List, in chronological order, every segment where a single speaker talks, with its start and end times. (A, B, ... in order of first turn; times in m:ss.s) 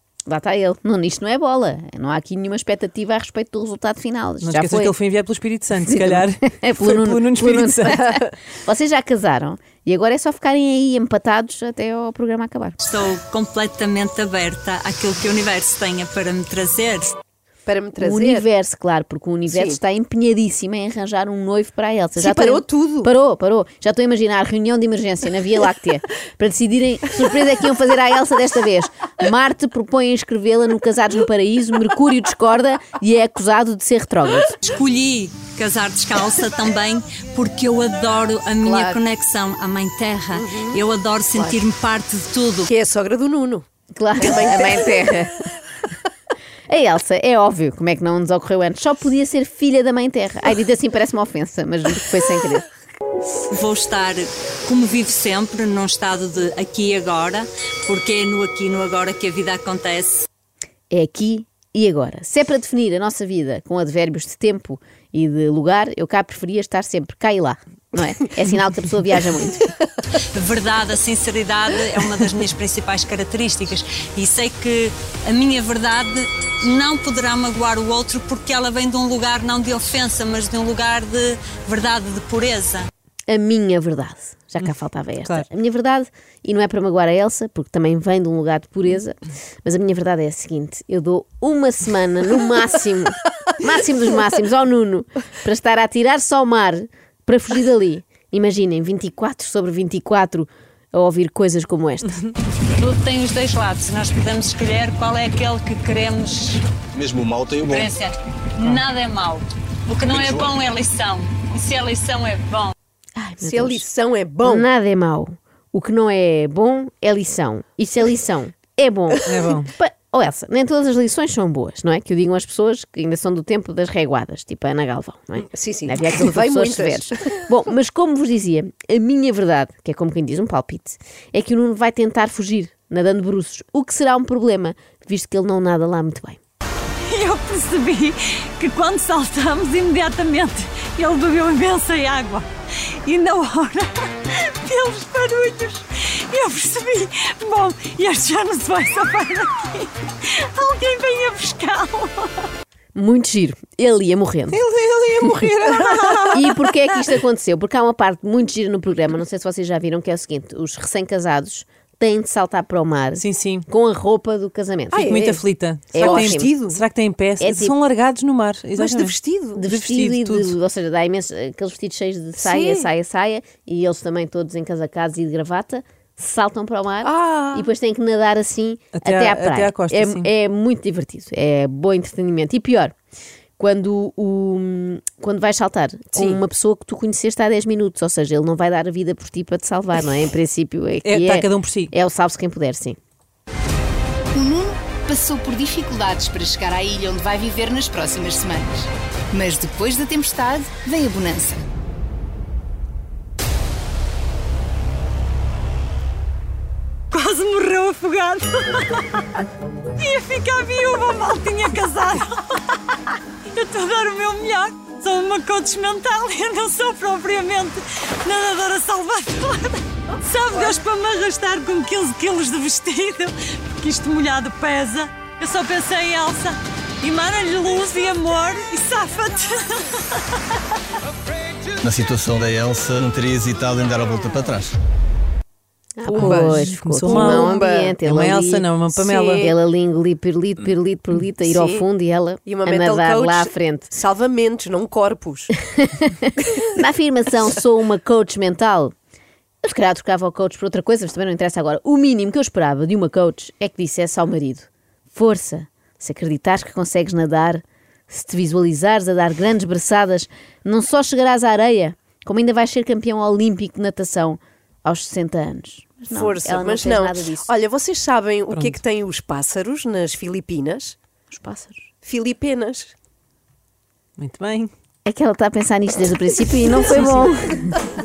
0:00.3-0:05.0 A
0:04.4-0:08.1 B
0:05.8-0:12.8 A
0:12.8-0:17.1 C
0:17.6-0:18.4 D
0:18.0-0:34.6 A
0:19.5-0:19.8 D
0:22.2-0:23.1 D
0:34.6-0:42.7 C
0:38.6-0:39.0 D
0:40.3-0:40.8 D
0:41.3-0:41.6 D
0:42.6-0:43.6 D
0:43.9-0:45.4 A
0:44.2-0:45.0 D
0:46.7-0:52.7 A
0:53.5-1:00.3 C
1:00.9-1:09.6 A
1:10.3-1:22.9 C
1:23.3-1:42.2 A
1:25.2-1:25.5 B
1:42.7-1:46.6 C
1:46.9-1:47.9 E
1:47.6-1:52.7 C
1:50.1-1:50.5 E
1:53.2-1:53.8 A
1:53.4-1:54.7 D
1:54.4-2:16.4 A
1:59.2-1:59.7 B
2:05.5-2:07.4 D
2:17.0-2:22.5 C
2:23.0-2:32.5 C
2:32.9-2:34.6 A
2:34.5-2:36.3 B
2:34.8-2:36.4 D
2:36.3-2:45.1 A
2:43.1-2:43.7 B
2:44.9-2:45.4 D
2:45.0-2:50.6 B
2:45.9-2:46.5 A
2:46.0-2:46.8 D
2:47.4-2:47.8 A
2:48.8-2:49.6 D
2:49.6-3:02.9 A
2:52.4-2:52.9 D
2:57.0-2:57.7 D
2:58.9-3:00.3 B
3:03.6-3:13.0 A
3:06.1-3:06.4 D
3:11.0-3:11.9 B
3:14.3-3:21.6 F
3:27.1-3:29.2 C
3:30.0-3:32.6 C
3:33.5-3:50.2 C
3:51.8-3:54.7 E
3:56.0-3:58.7 A
3:56.1-3:58.0 D
3:56.1-3:59.5 B
3:58.9-3:59.5 D
3:59.4-4:03.9 A
4:01.4-4:01.8 D
4:02.4-4:05.5 D
4:05.8-4:08.9 A
4:09.6-4:27.5 A
4:26.1-4:31.0 D
4:28.5-4:28.8 B
4:31.3-4:31.9 A
4:32.0-4:32.9 D
4:34.2-4:34.7 B
4:35.0-4:37.8 A